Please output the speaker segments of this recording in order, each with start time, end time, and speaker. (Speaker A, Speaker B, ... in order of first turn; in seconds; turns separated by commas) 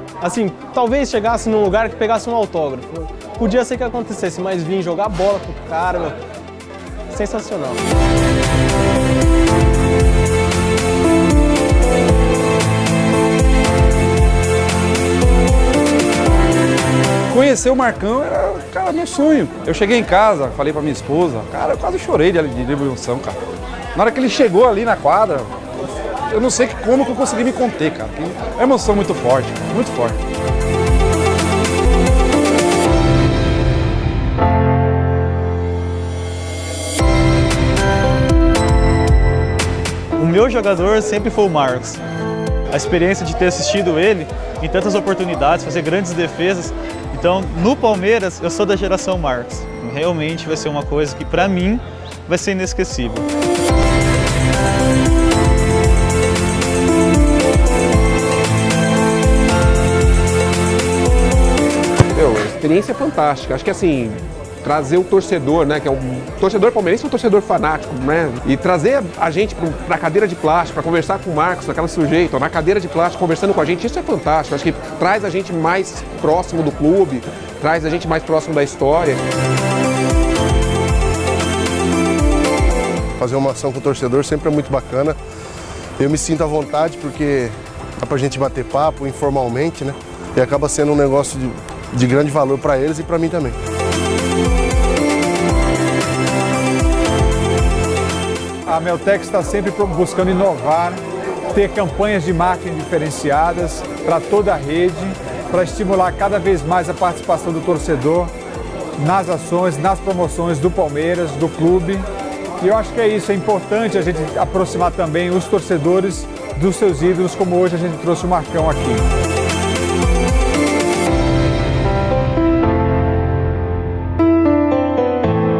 Speaker A: 0.2-6.2, Speaker A: 7.1-7.8, Speaker B: 17.3-23.4, Speaker B: 23.9-25.5, Speaker B: 26.3-30.2, Speaker C: 40.1-42.0, Speaker C: 42.7-53.3, Speaker D: 62.0-79.2, Speaker E: 83.2-85.2, Speaker E: 86.0-93.6, Speaker F: 98.6-108.3, Speaker F: 109.0-112.0, Speaker F: 112.6-119.0